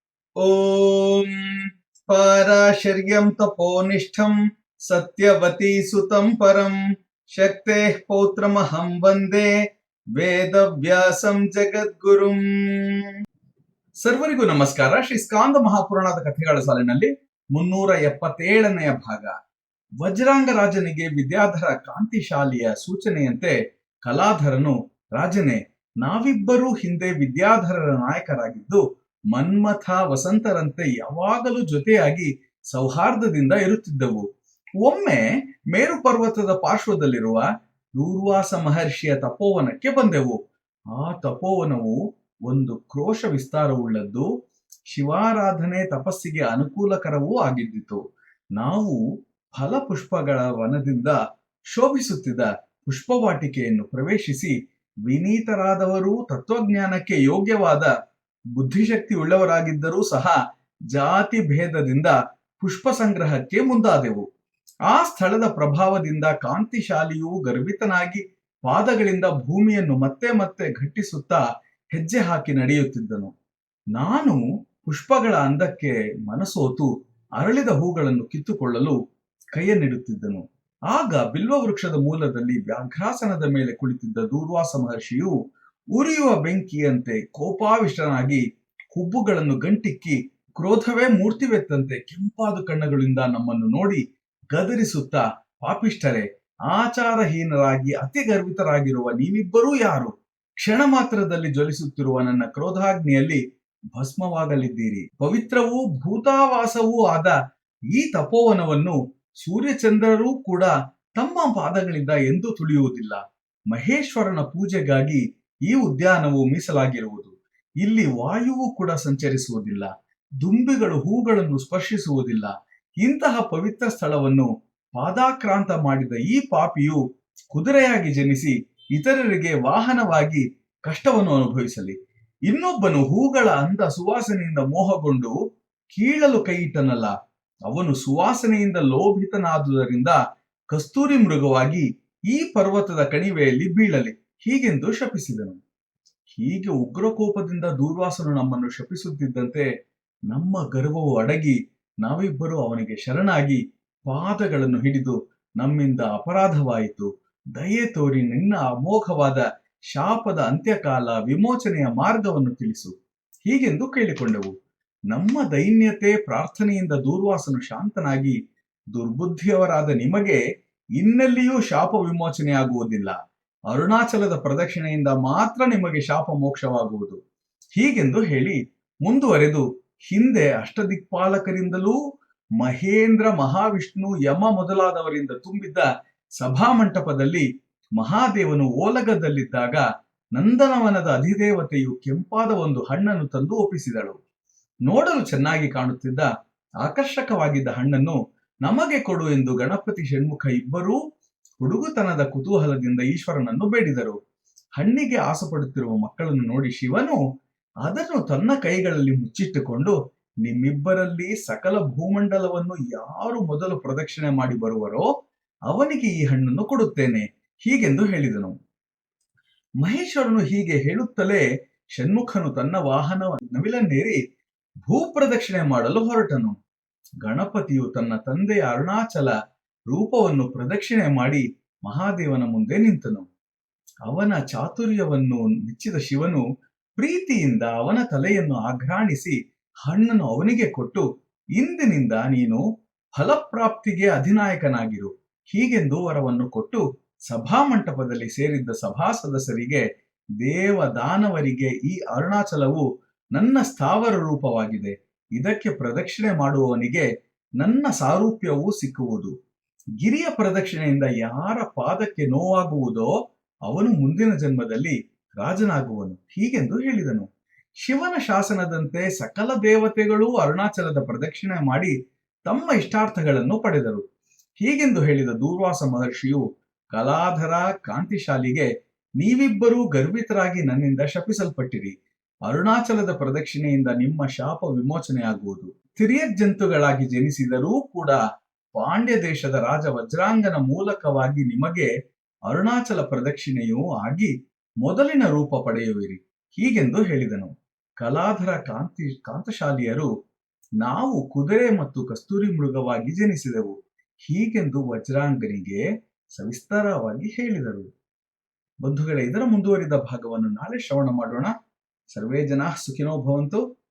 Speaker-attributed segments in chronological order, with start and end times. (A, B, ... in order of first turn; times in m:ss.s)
0:00.4-0:01.3 A
0:02.1-0:04.4 A
0:04.9-0:06.8 A
0:07.4-0:09.5 A
0:10.2-0:13.0 A
0:14.0-0:19.3 A
0:20.0-0:23.5 A
0:24.1-0:28.8 A
0:29.3-0:34.2 A
0:34.8-0:37.4 A
0:38.0-0:40.4 A
0:41.0-0:42.0 A
0:42.5-0:44.3 A
0:44.9-0:48.0 A
0:48.6-0:49.0 A
0:49.6-0:51.2 A
0:51.7-0:54.5 A
0:55.1-0:57.9 A
0:58.6-1:00.4 A
1:00.9-1:04.3 A
1:04.9-1:11.4 A
1:11.9-1:13.3 A
1:14.0-1:19.0 A
1:19.5-1:25.3 A
1:26.0-1:28.4 A
1:28.9-1:34.0 A
1:34.5-1:43.4 A
1:44.0-1:47.4 A
1:47.9-1:53.2 A
1:53.7-1:59.9 A
2:00.4-2:02.5 A
2:03.0-2:07.0 A
2:07.5-2:12.0 A
2:12.5-2:15.4 A
2:16.0-2:17.1 A
2:17.7-2:20.2 A
2:20.7-2:25.6 A
2:26.3-2:29.7 A
2:30.3-2:42.9 A
2:43.5-2:44.5 A
2:45.1-2:48.4 A
2:49.0-2:50.4 A
2:51.0-2:53.2 A
2:53.7-2:57.2 A
2:57.8-3:02.0 A
3:02.6-3:05.9 A
3:06.4-3:07.4 A
3:08.0-3:09.8 A
3:10.4-3:14.2 A
3:14.9-3:16.3 A
3:16.8-3:21.0 A
3:21.6-3:24.2 A
3:24.8-3:27.2 A
3:27.8-3:35.1 A
3:35.7-3:38.5 A
3:39.8-3:41.4 A
3:42.0-3:44.2 A
3:44.9-3:46.6 A
3:47.2-3:49.3 A
3:49.9-3:53.3 A
3:54.1-3:56.4 A
3:57.0-3:59.4 A
3:59.9-4:01.0 A
4:01.6-4:02.6 A
4:03.2-4:09.8 A
4:10.4-4:12.8 A
4:13.4-4:17.1 A
4:17.6-4:19.3 A
4:20.0-4:23.1 A
4:23.7-4:27.3 A
4:27.8-4:31.9 A
4:32.5-4:34.0 A
4:34.6-4:36.4 A
4:36.9-4:38.7 A
4:39.2-4:41.9 A
4:42.5-4:48.2 A
4:48.8-4:51.9 A
4:52.5-4:54.3 A
4:54.8-5:00.1 A
5:00.8-5:03.7 A
5:04.3-5:05.8 A
5:06.4-5:07.9 A
5:08.8-5:11.5 A
5:12.1-5:13.6 A